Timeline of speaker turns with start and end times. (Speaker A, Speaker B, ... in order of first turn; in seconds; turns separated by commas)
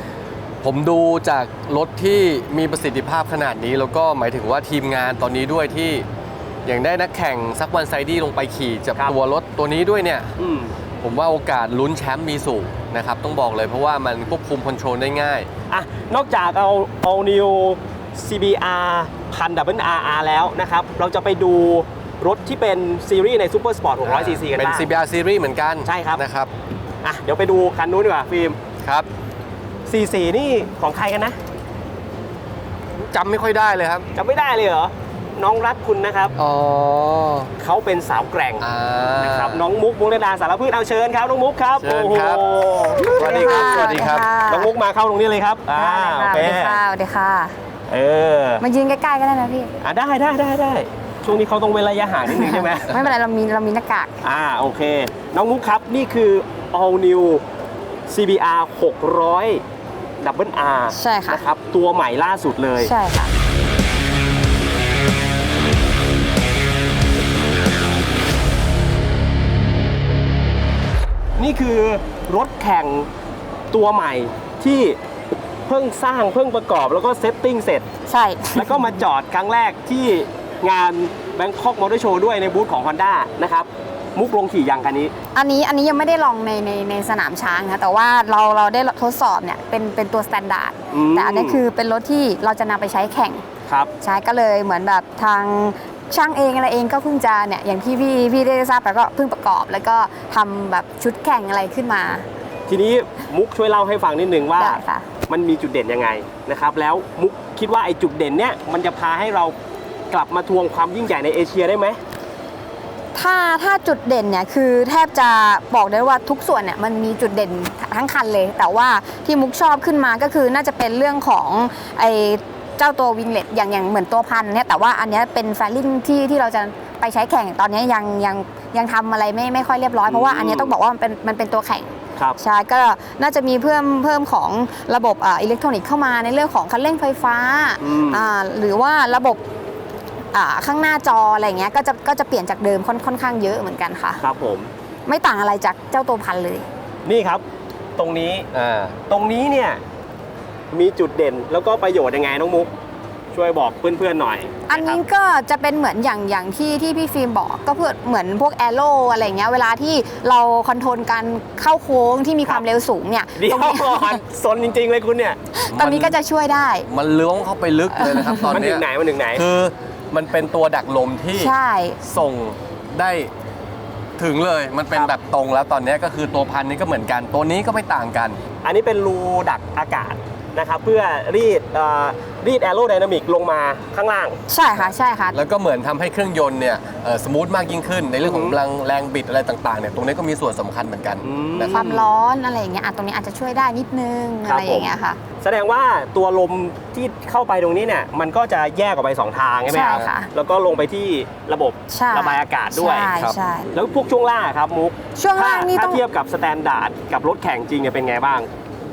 Speaker A: 0.6-6.0, Speaker A: 6.7-10.3, Speaker B: 10.4-10.8, Speaker A: 11.0-15.5, Speaker B: 15.7-24.9, Speaker A: 24.0-26.5, Speaker B: 25.9-26.2, Speaker B: 27.0-28.6, Speaker A: 28.8-29.1, Speaker B: 29.9-31.4, Speaker A: 33.0-34.1, Speaker B: 34.1-36.3, Speaker A: 36.4-37.5, Speaker B: 37.6-38.6, Speaker A: 38.6-39.6, Speaker B: 39.2-46.8, Speaker A: 41.8-42.4, Speaker A: 43.0-44.2, Speaker C: 43.2-44.7, Speaker C: 45.7-47.5, Speaker B: 47.9-48.6, Speaker C: 48.6-49.7, Speaker B: 49.8-52.9, Speaker C: 52.3-54.1, Speaker B: 54.2-57.4, Speaker B: 58.1-59.6, Speaker B: 60.2-62.9, Speaker C: 60.9-61.4, Speaker C: 62.8-63.3, Speaker B: 71.4-73.1, Speaker B: 73.7-75.0, Speaker B: 75.7-77.9, Speaker C: 78.1-78.9, Speaker B: 78.5-85.1, Speaker C: 85.3-93.4, Speaker B: 90.9-91.6, Speaker C: 94.0-102.2, Speaker B: 102.7-109.5, Speaker C: 104.6-105.1, Speaker B: 110.1-112.0, Speaker C: 113.1-139.4, Speaker B: 130.1-130.7, Speaker B: 137.8-138.3, Speaker C: 140.3-144.2, Speaker B: 144.2-144.7, Speaker C: 145.1-146.7, Speaker B: 147.1-147.4, Speaker B: 148.0-148.5, Speaker A: 148.5-149.0, Speaker B: 149.1-149.8, Speaker B: 150.7-152.7, Speaker B: 153.3-155.0, Speaker C: 154.7-164.2, Speaker B: 163.3-165.4, Speaker C: 165.5-166.9, Speaker A: 165.7-166.2, Speaker A: 166.9-173.3, Speaker C: 168.0-168.5, Speaker B: 168.5-169.4, Speaker C: 171.3-172.0, Speaker A: 174.2-178.4, Speaker B: 178.6-184.4, Speaker C: 184.5-185.4, Speaker A: 184.8-191.9, Speaker B: 188.2-188.6, Speaker B: 191.2-192.0, Speaker C: 191.7-195.2, Speaker B: 194.4-203.1, Speaker C: 199.7-200.3, Speaker C: 201.9-203.7, Speaker B: 203.7-208.5, Speaker C: 205.2-206.0